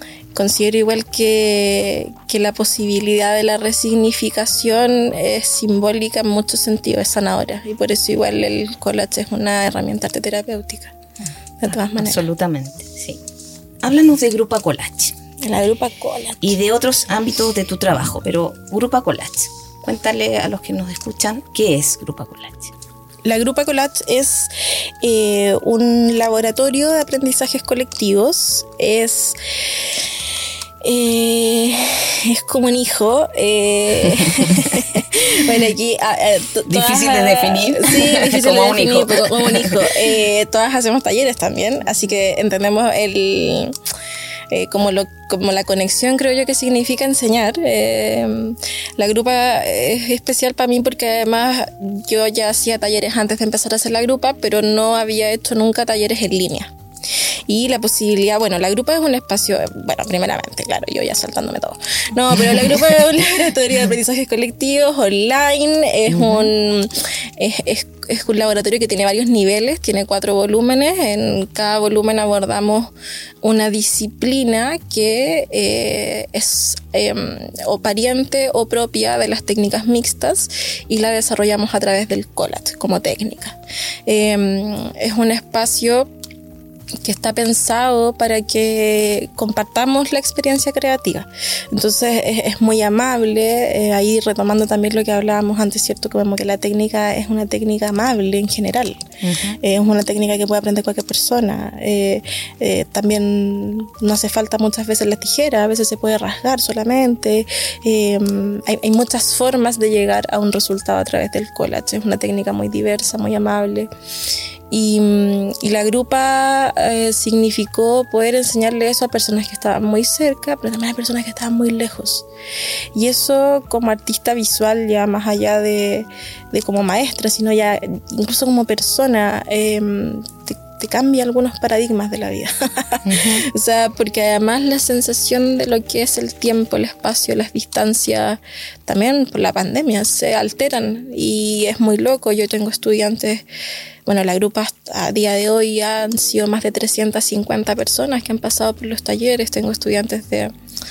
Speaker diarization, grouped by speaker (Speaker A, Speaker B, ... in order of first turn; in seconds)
Speaker A: 0.3-10.9, 11.6-12.2, 15.4-16.5, 23.2-30.0, 30.8-43.8, 44.5-56.7, 57.5-72.9, 73.4-86.1, 87.0-99.0, 99.6-113.9, 114.7-122.3, 123.0-143.4, 144.1-150.5
Speaker B: 12.0-13.2, 13.8-15.2, 16.4-22.7, 34.3-34.8, 36.7-39.9, 62.5-62.8, 66.1-66.5, 99.2-99.6, 133.1-133.5